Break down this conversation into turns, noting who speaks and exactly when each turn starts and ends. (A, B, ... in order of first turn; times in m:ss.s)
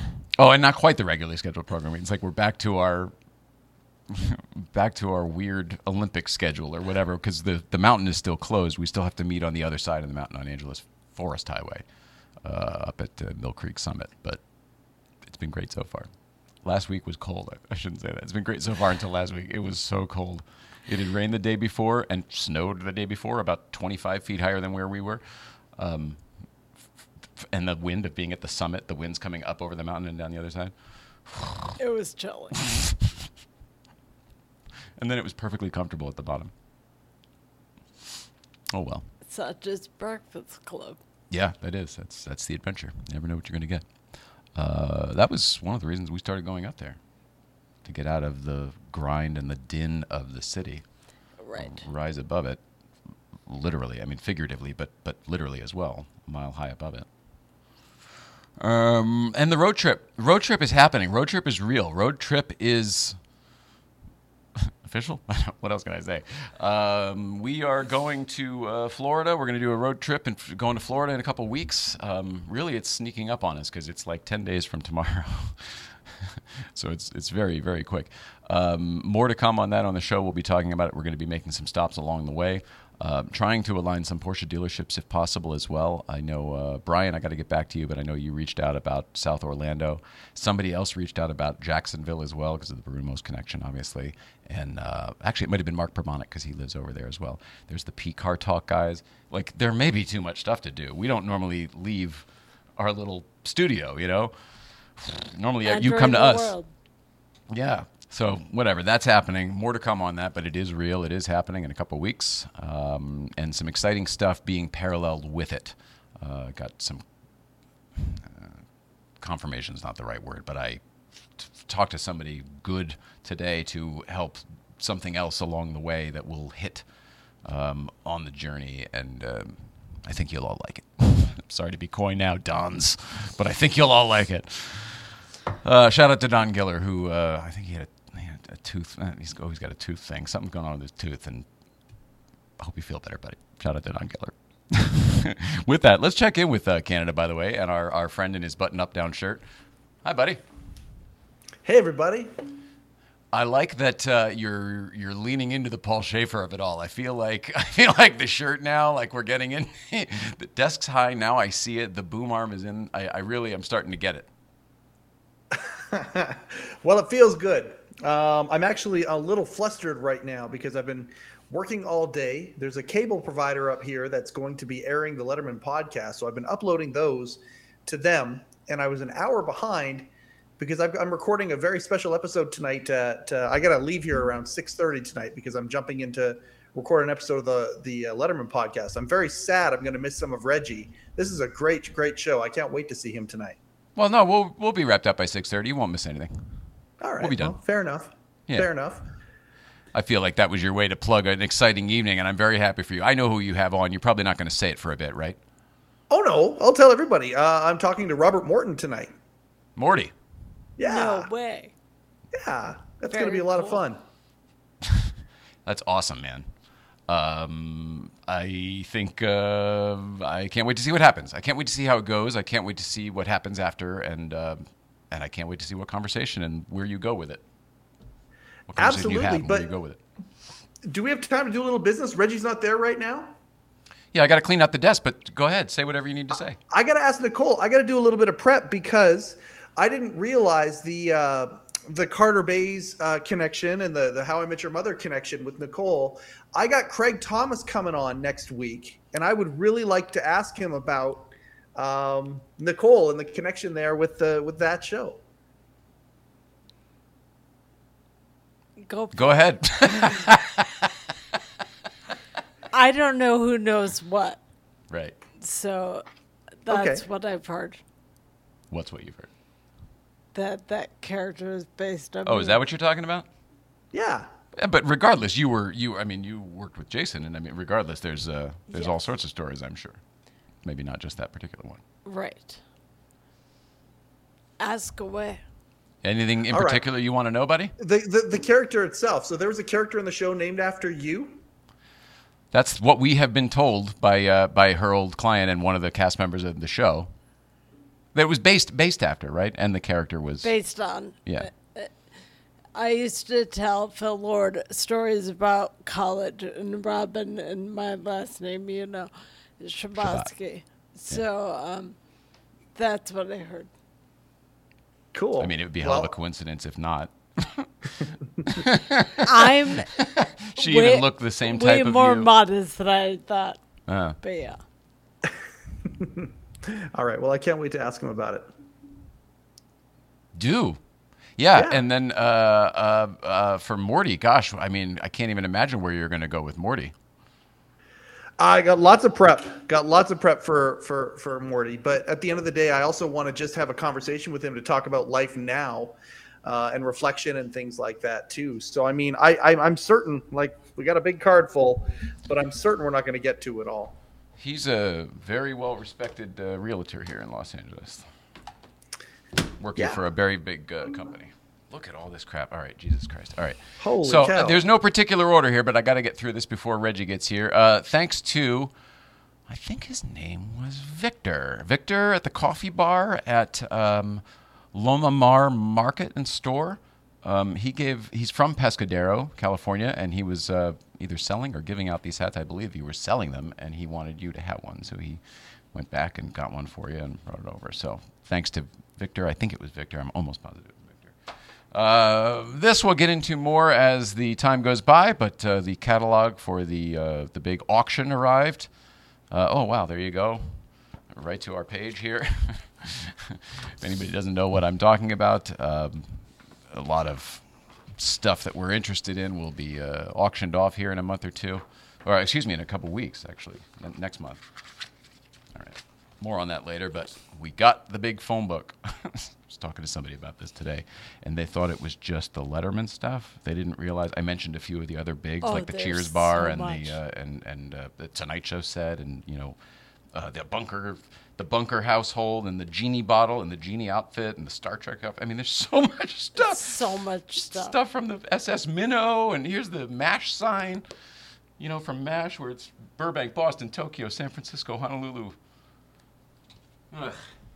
0:00.2-0:03.1 A
0:04.1-0:11.8 A
0:12.4-0:14.4 A
0:15.2-0:16.1 A
0:16.6-0:25.2 A
0:25.8-0:26.2 A
0:27.4-0:30.7 A
0:31.2-0:31.8 A
0:31.8-0:32.6 B
0:32.6-0:33.1 A
0:35.0-0:36.5 A
0:38.7-0:39.1 A
0:39.2-0:41.0 B
0:41.3-0:43.8 A
0:44.5-0:47.0 A
0:47.8-0:50.8 A
0:51.4-0:51.8 B
0:51.5-0:52.6 A
0:53.5-0:57.1 A
0:58.6-1:03.2 A
1:04.6-1:42.2 A
1:42.8-1:44.3 A
1:45.0-1:46.5 A
1:45.6-1:46.7 B
1:47.5-1:57.0 A
1:57.9-1:58.6 A
1:59.2-2:00.8 A
2:01.4-2:06.8 A
2:07.4-2:21.4 A
2:22.6-2:29.4 A
2:30.0-2:30.4 A
2:31.6-2:32.3 C
2:33.3-2:44.3 A
2:45.5-3:00.1 C
3:00.6-3:13.6 C
3:14.0-3:16.5 A
3:17.0-3:19.0 C
3:17.2-3:17.6 A
3:19.9-3:25.4 A
3:26.1-3:29.1 C
3:29.8-3:30.1 A
3:30.8-3:31.3 C
3:30.8-3:31.7 B
3:32.3-3:34.0 C
3:33.1-3:33.8 B
3:34.8-3:35.1 A
3:35.6-3:36.5 A
3:37.1-3:47.4 A
3:48.7-3:50.0 A
3:48.8-3:49.7 C
3:50.8-3:53.3 C
3:54.1-3:56.6 A
3:56.7-4:15.2 C
4:18.8-4:20.3 B
4:19.1-4:20.9 A
4:22.7-4:24.4 B
4:24.9-4:25.2 A
4:25.4-4:26.0 B
4:26.6-4:27.8 B
4:26.7-4:27.0 C
4:28.7-4:29.3 A
4:30.3-4:32.6 B
4:32.2-4:33.3 A
4:33.9-4:34.3 C
4:34.6-4:40.0 A
4:38.7-4:39.0 B
4:40.6-4:41.8 A
4:42.0-4:42.6 B
4:44.6-4:45.4 B
4:46.0-4:47.7 A
4:46.5-4:46.8 C
4:47.8-4:51.4 C
4:52.5-4:57.1 A
4:58.1-5:00.5 A
5:00.4-5:01.9 B
5:02.7-5:11.9 B
5:10.0-5:10.3 A
5:12.8-5:13.7 B
5:15.1-5:16.1 C
5:15.4-5:17.7 A
5:18.4-5:22.3 A
5:19.2-5:20.0 B
5:20.6-5:23.6 B
5:23.9-5:24.2 A
5:24.2-5:24.6 B
5:25.8-5:28.5 C
5:30.3-5:30.8 A
5:31.4-5:36.9 A
5:38.4-5:53.9 C
5:54.4-5:58.1 A
5:59.6-6:08.7 A
6:03.8-6:04.6 C
6:09.5-6:14.2 A
6:14.7-6:25.2 A
6:25.7-6:31.1 A
6:31.7-6:38.7 A
6:39.3-6:40.6 A
6:41.1-6:47.4 A
6:48.0-6:54.4 A
6:55.5-7:09.6 A
7:05.4-7:07.0 B
7:10.1-7:16.8 A
7:16.4-7:17.7 B
7:17.4-7:20.8 A
7:21.6-7:25.4 A
7:26.9-7:27.2 A